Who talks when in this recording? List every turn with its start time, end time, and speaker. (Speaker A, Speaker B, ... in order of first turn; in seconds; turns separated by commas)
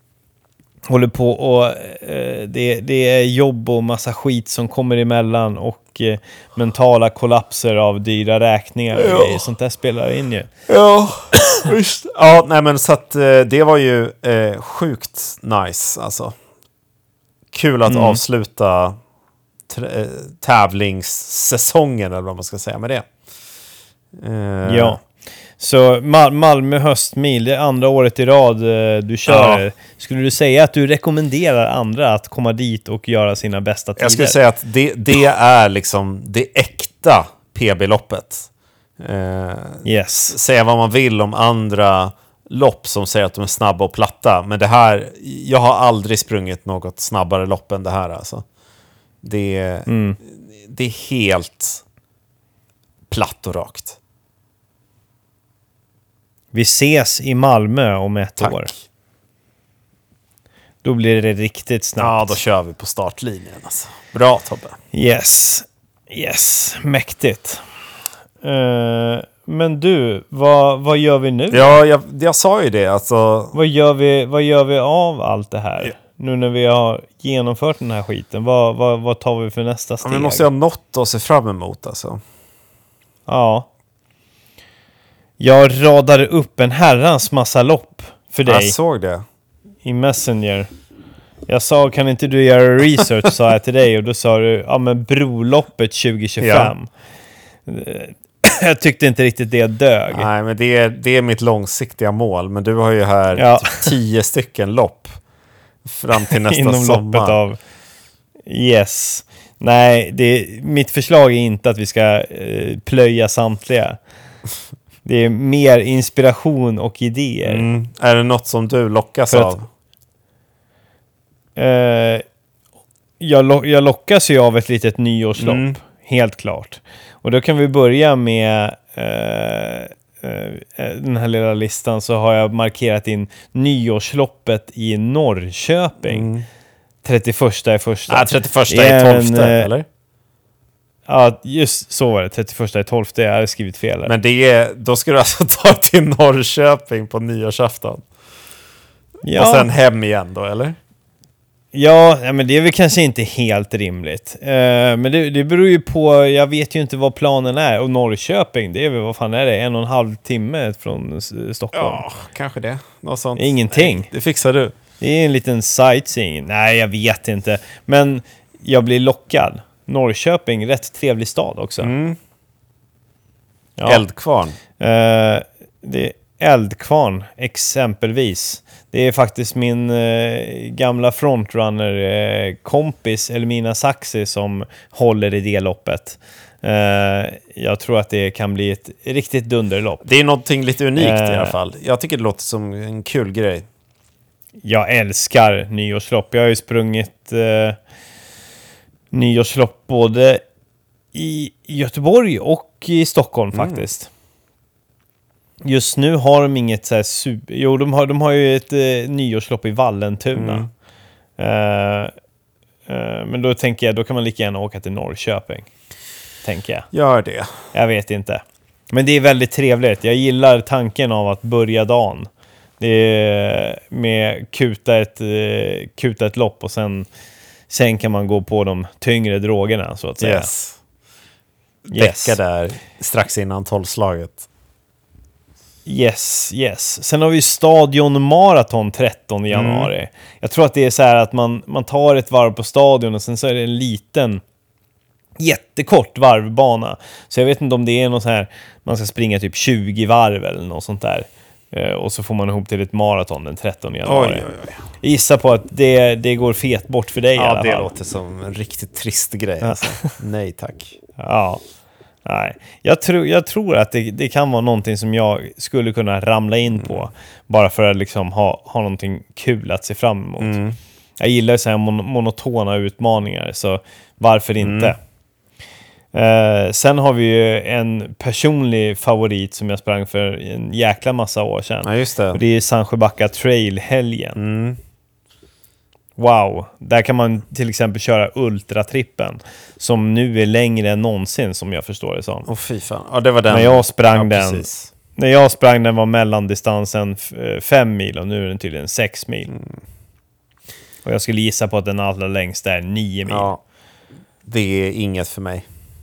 Speaker A: 0.9-10.5, Speaker B: 8.9-9.4, Speaker B: 10.7-16.4, Speaker B: 17.5-19.0, Speaker A: 17.9-18.2, Speaker B: 19.7-23.1, Speaker B: 24.2-25.0, Speaker A: 24.6-25.0, Speaker A: 25.6-34.4, Speaker B: 29.3-29.6, Speaker B: 34.0-38.5, Speaker B: 39.0-48.5, Speaker A: 39.8-40.4, Speaker B: 49.2-51.8, Speaker A: 49.9-50.2, Speaker B: 53.1-54.0, Speaker A: 56.5-58.7, Speaker B: 58.4-58.8, Speaker A: 60.8-62.4, Speaker B: 62.0-64.8, Speaker A: 64.9-67.6, Speaker A: 68.4-71.8, Speaker B: 71.5-73.5, Speaker A: 73.5-80.5, Speaker B: 80.0-82.2, Speaker A: 83.3-83.7, Speaker A: 85.4-88.8, Speaker B: 88.5-89.2, Speaker A: 89.8-90.7, Speaker A: 91.5-96.9, Speaker B: 96.4-96.7, Speaker A: 97.7-100.3, Speaker B: 100.1-105.1, Speaker A: 103.3-103.9, Speaker B: 105.8-107.4, Speaker A: 106.1-107.6, Speaker A: 108.5-114.0, Speaker A: 115.0-117.7, Speaker B: 117.5-119.7, Speaker A: 119.3-119.5, Speaker A: 121.6-122.2, Speaker A: 123.2-136.3, Speaker B: 125.4-125.8, Speaker B: 136.0-136.5, Speaker A: 137.0-139.7, Speaker B: 138.1-139.9, Speaker A: 141.1-144.1, Speaker B: 144.1-148.1, Speaker A: 149.2-149.7, Speaker B: 149.3-150.8, Speaker A: 151.7-162.0, Speaker B: 161.7-164.8, Speaker A: 163.4-164.1, Speaker A: 165.0-171.9, Speaker B: 171.8-172.2, Speaker A: 173.8-174.0, Speaker B: 173.9-174.6, Speaker A: 174.8-190.0, Speaker B: 190.0-193.7, Speaker A: 191.0-191.6, Speaker A: 194.6-197.8, Speaker A: 199.1-200.4, Speaker A: 201.1-204.1, Speaker B: 203.5-203.8, Speaker A: 205.6-210.7, Speaker B: 210.3-210.7, Speaker A: 211.4-212.1, Speaker A: 212.9-215.7, Speaker A: 216.4-216.9, Speaker B: 216.9-217.6, Speaker A: 217.7-222.3, Speaker A: 222.8-227.1, Speaker A: 227.7-230.5, Speaker B: 230.2-230.8, Speaker A: 231.9-232.4, Speaker B: 231.9-234.4, Speaker A: 235.9-244.4, Speaker B: 239.5-239.9, Speaker A: 245.4-254.5, Speaker B: 254.1-254.8, Speaker A: 255.0-257.9, Speaker B: 257.4-261.0, Speaker A: 259.6-260.1, Speaker A: 261.2-261.6, Speaker A: 262.2-270.6, Speaker B: 266.8-267.1, Speaker B: 270.4-270.8, Speaker A: 271.2-275.0, Speaker B: 274.6-274.9, Speaker A: 276.1-284.4, Speaker B: 281.8-282.4, Speaker B: 284.4-284.8, Speaker A: 286.2-292.5, Speaker B: 292.5-294.9, Speaker A: 293.5-299.5, Speaker B: 299.5-299.8, Speaker A: 301.0-303.5, Speaker B: 303.3-303.6, Speaker B: 304.4-305.7